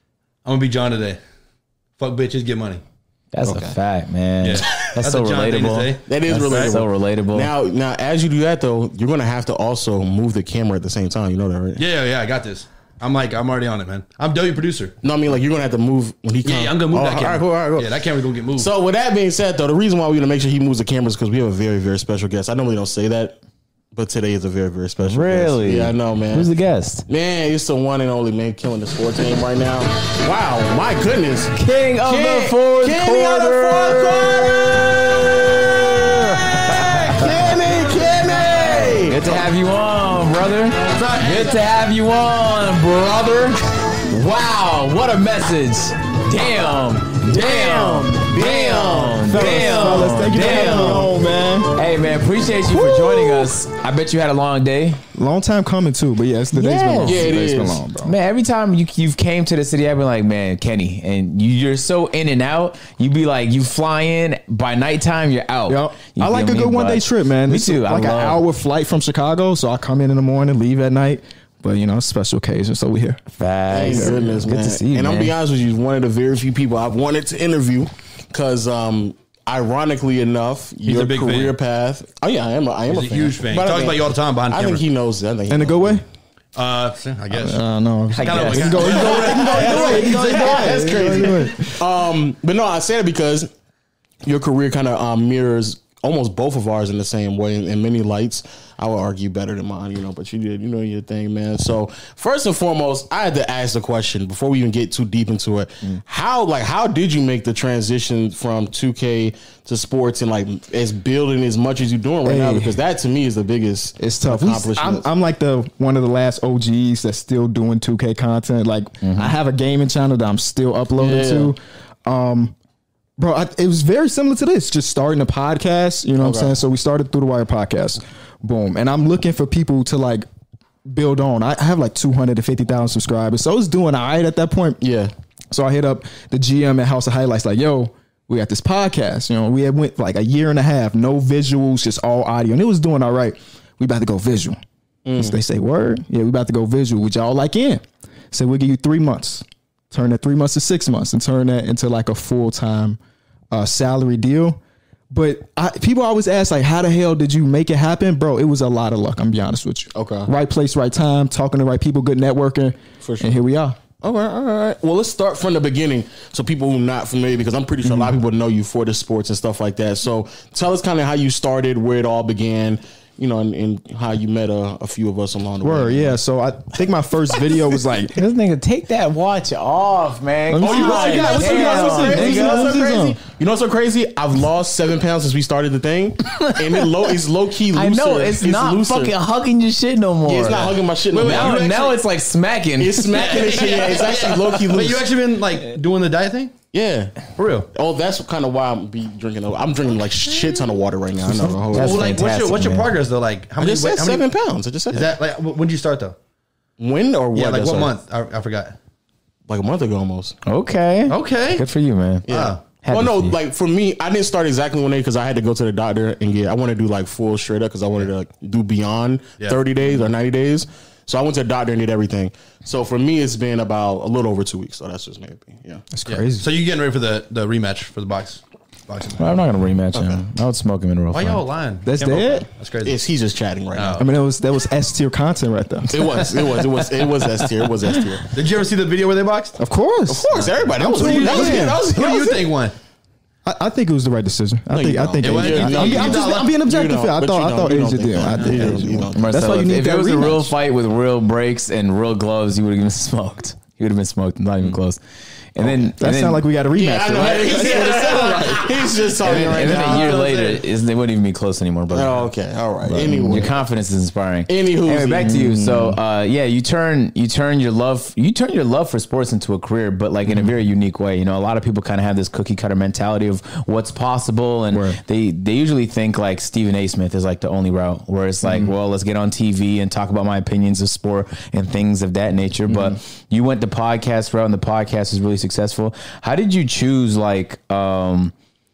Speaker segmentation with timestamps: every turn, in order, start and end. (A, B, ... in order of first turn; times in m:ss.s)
0:00.4-0:01.2 A
0:02.0-0:02.8 A
0:03.3-0:07.5 B
0:04.4-0:06.8 A
0:06.1-0:11.8 C
0:11.8-0:15.0 A
0:15.0-0:23.4 C
0:16.4-0:18.7 A
0:24.0-0:26.5 C
0:25.0-0:27.0 B
0:27.1-0:39.4 C
0:31.6-0:34.9 B
0:36.1-0:43.6 B
0:40.9-0:41.6 A
0:44.1-0:51.1 B
0:47.3-0:51.0 C
0:49.3-0:51.8 D
0:51.8-0:55.0 B
0:52.7-0:53.5 D
0:55.2-0:58.2 D
0:56.5-0:57.4 B
0:57.0-0:57.8 C
0:58.0-1:08.4 B
1:05.7-1:13.2 D
1:13.3-1:15.4 B
1:13.7-1:26.0 C
1:13.8-1:14.3 D
1:20.8-1:21.6 A
1:22.9-1:24.8 A
1:25.5-1:26.0 D
1:26.6-1:27.6 A
1:27.3-1:31.8 D
1:28.1-1:31.0 A
1:28.2-1:29.2 B
1:28.8-1:33.5 C
1:34.2-1:55.1 C
1:52.2-1:52.7 D
1:54.0-2:02.6 D
1:59.0-1:59.3 B
2:01.0-2:01.6 C
2:03.2-2:10.3 D
2:06.2-2:06.6 C
2:10.9-2:14.8 D
2:14.8-2:15.1 C
2:15.5-2:24.6 D
2:25.0-2:25.4 C
2:25.2-2:33.0 D
2:33.5-2:34.6 D
2:35.1-2:43.8 D
2:39.9-2:40.3 C
2:43.0-2:43.4 C
2:44.0-2:56.2 C
2:47.9-2:48.1 D
2:55.6-2:58.2 D
2:58.1-3:02.7 B
3:00.5-3:03.2 D
3:00.6-3:09.1 C
3:06.4-3:06.9 B
3:07.7-3:13.7 B
3:10.2-3:11.7 C
3:10.6-3:12.0 A
3:12.8-3:15.1 C
3:13.2-3:16.5 A
3:16.7-3:17.1 C
3:17.4-3:17.7 A
3:17.7-3:22.1 C
3:21.3-3:23.0 B
3:21.7-3:24.3 A
3:23.6-3:25.2 C
3:24.9-3:26.2 A
3:26.8-3:27.9 C
3:27.3-3:28.8 A
3:29.5-3:30.4 C
3:30.5-3:32.3 B
3:31.1-3:31.7 A
3:32.3-3:32.6 A
3:32.3-3:45.9 C
3:32.8-3:33.4 B
3:45.9-3:46.5 D
3:46.1-3:49.4 A
3:49.2-3:51.4 B
3:49.9-3:50.2 C
3:51.1-3:53.0 A
3:51.9-3:52.5 D
3:52.8-3:54.0 C
3:53.7-3:54.1 A
3:54.0-3:56.2 D
3:55.9-3:58.3 C
3:58.3-3:59.6 A
3:59.6-4:01.8 D
4:00.1-4:02.5 C
4:00.9-4:02.8 A
4:03.4-4:10.5 D
4:04.7-4:09.3 C
4:05.2-4:06.5 A
4:09.2-4:15.0 B
4:15.6-4:16.4 B
4:15.6-4:20.2 D
4:16.7-4:20.6 C
4:19.2-4:22.3 B
4:21.9-4:23.6 C
4:22.9-4:23.5 D
4:23.0-4:48.3 B
4:24.5-4:25.4 C
4:25.2-4:26.0 D
4:34.7-4:35.0 D
4:38.4-4:38.7 D
4:42.7-4:43.0 D